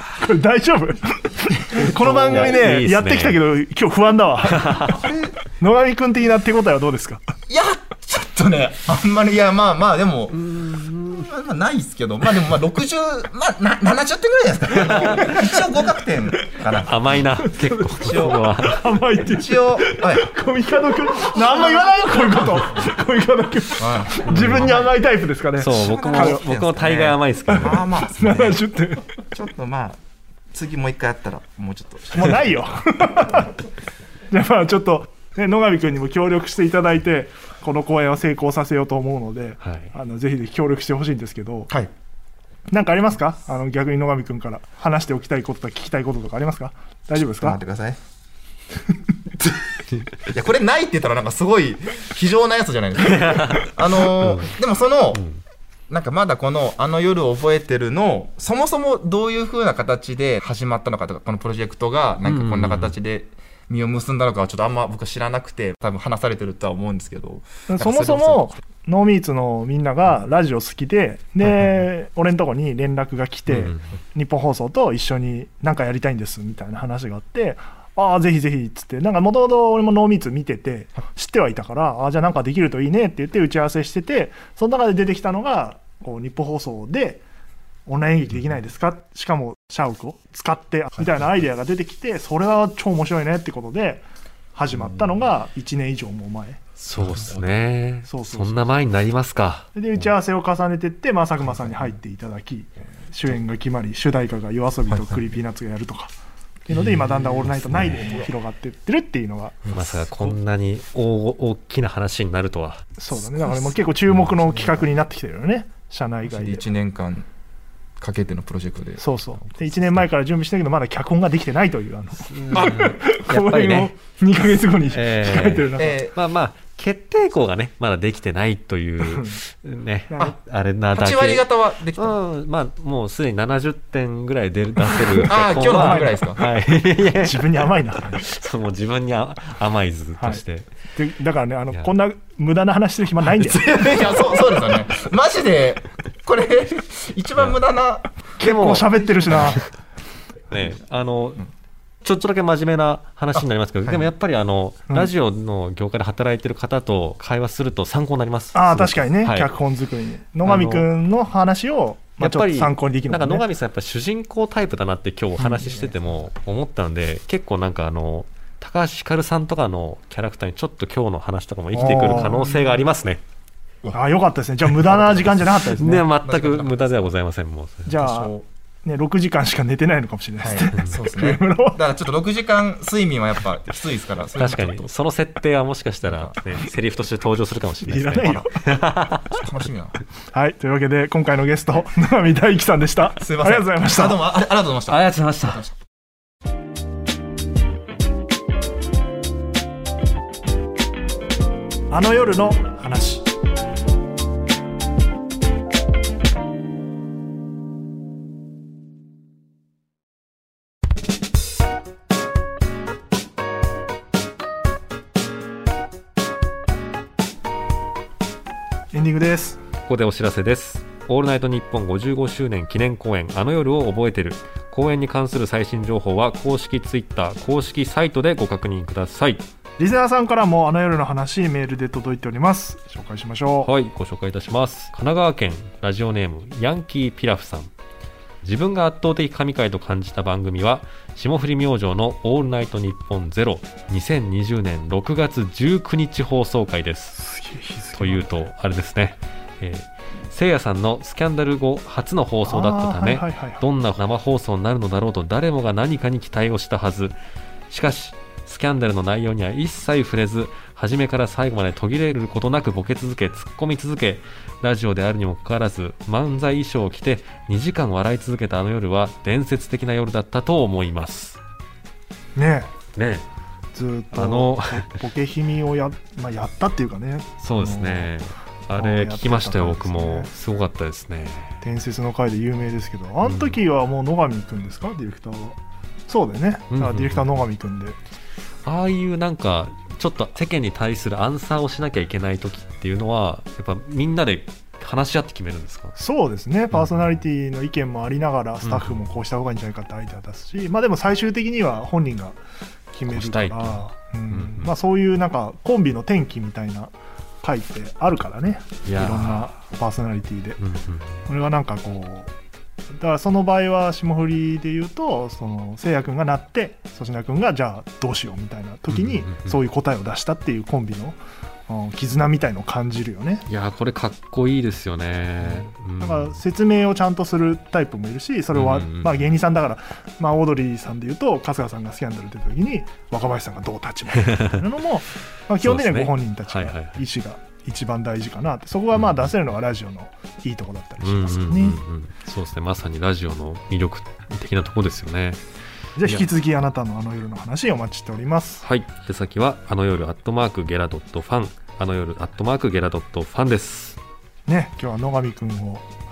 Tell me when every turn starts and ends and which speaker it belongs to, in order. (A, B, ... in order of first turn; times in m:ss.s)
0:00.2-0:05.0 A
0:01.7-0:02.3 B
0:01.8-0:03.4 C
0:04.6-0:04.9 C
0:04.8-0:05.4 B
0:05.6-0:07.2 A
0:07.5-0:17.2 B
0:10.4-0:11.3 C
0:15.0-0:15.3 C
0:16.8-0:18.8 C
0:17.4-0:26.4 A
0:17.8-0:18.4 B
0:19.2-0:20.3 B
0:23.8-0:24.9 B
0:24.3-0:24.8 C
0:25.6-0:27.8 C
0:25.7-0:28.6 B
0:27.5-0:29.1 A
0:29.3-0:32.7 B
0:32.2-0:33.5 A
0:34.3-0:41.7 A
0:39.6-0:39.9 C
0:42.7-0:47.6 A
0:47.4-0:48.0 B
0:50.2-0:55.2 B
0:53.0-0:54.6 C
0:55.9-1:08.6 B
1:02.3-1:02.9 C
1:07.7-1:27.2 A
1:13.5-1:13.8 C
1:27.9-1:36.6 A
1:36.8-1:39.7 C
1:37.2-1:37.4 B
1:38.1-1:38.7 A
1:39.8-1:46.1 A
1:46.7-1:49.8 A
1:46.8-1:48.2 C
1:49.7-1:50.4 B
1:49.7-1:52.8 C
1:53.0-1:56.6 A
1:56.3-1:57.3 B
1:58.0-1:59.0 B
1:59.0-2:06.0 A
2:02.3-2:03.9 C
2:04.9-2:20.7 C
2:05.8-2:06.2 B
2:09.0-2:09.4 A
2:10.1-2:10.4 A
2:10.9-2:12.2 B
2:15.2-2:16.5 B
2:15.6-2:16.2 A
2:17.2-2:18.2 A
2:21.0-2:23.6 A
2:23.4-2:28.1 B
2:28.4-2:29.7 C
2:28.4-2:29.6 A
2:30.5-2:31.4 C
2:32.0-2:39.5 C
2:33.3-2:34.1 B
2:38.5-2:43.4 A
2:40.4-2:40.9 C
2:42.2-2:53.2 C
2:45.5-2:45.9 A
2:51.7-2:52.8 A
2:53.9-2:56.1 A
2:54.9-2:55.3 B
2:55.7-2:57.9 C
2:56.2-2:57.1 B
2:57.9-3:01.8 A
2:58.0-2:58.5 B
3:00.4-3:04.9 B
3:04.4-3:09.4 C
3:06.0-3:06.4 B
3:07.8-3:08.6 A
3:09.3-3:10.0 B
3:10.3-3:14.2 A
3:13.2-3:15.8 B
3:14.9-3:15.6 C
3:21.9-3:23.3 A
3:38.9-3:39.6 A
3:39.8-3:49.4 C
3:49.8-3:53.7 A
3:53.6-3:57.7 C
3:58.4-4:07.2 C
4:07.2-4:08.4 A
4:08.0-4:17.1 C
4:12.4-4:13.6 A
4:17.7-4:31.4 C
4:32.4-4:32.7 A
4:33.0-4:33.3 C
4:33.7-4:38.1 A
4:34.1-4:35.0 C
4:37.4-4:41.6 C
4:38.8-4:40.3 A
4:41.6-4:45.6 A
4:43.2-4:43.6 C
4:46.1-4:48.0 A
4:46.7-4:47.4 C
4:48.7-4:56.0 C
4:56.0-5:02.4 A
4:56.7-4:57.1 C
4:58.6-4:59.1 C
5:02.9-5:10.6 A
5:03.1-5:04.7 C
5:08.9-5:09.5 C
5:10.6-5:11.2 C
5:11.3-5:12.3 A
5:13.0-5:23.5 A
5:18.9-5:19.6 C
5:23.5-5:26.4 C
5:25.4-5:41.8 A
5:28.5-5:29.3 C
5:34.2-5:34.6 C
5:35.6-5:37.0 C
5:39.0-5:39.3 C
5:41.0-5:45.4 C
5:46.0-5:48.6 A
5:48.6-5:54.0 C
5:54.5-5:55.8 A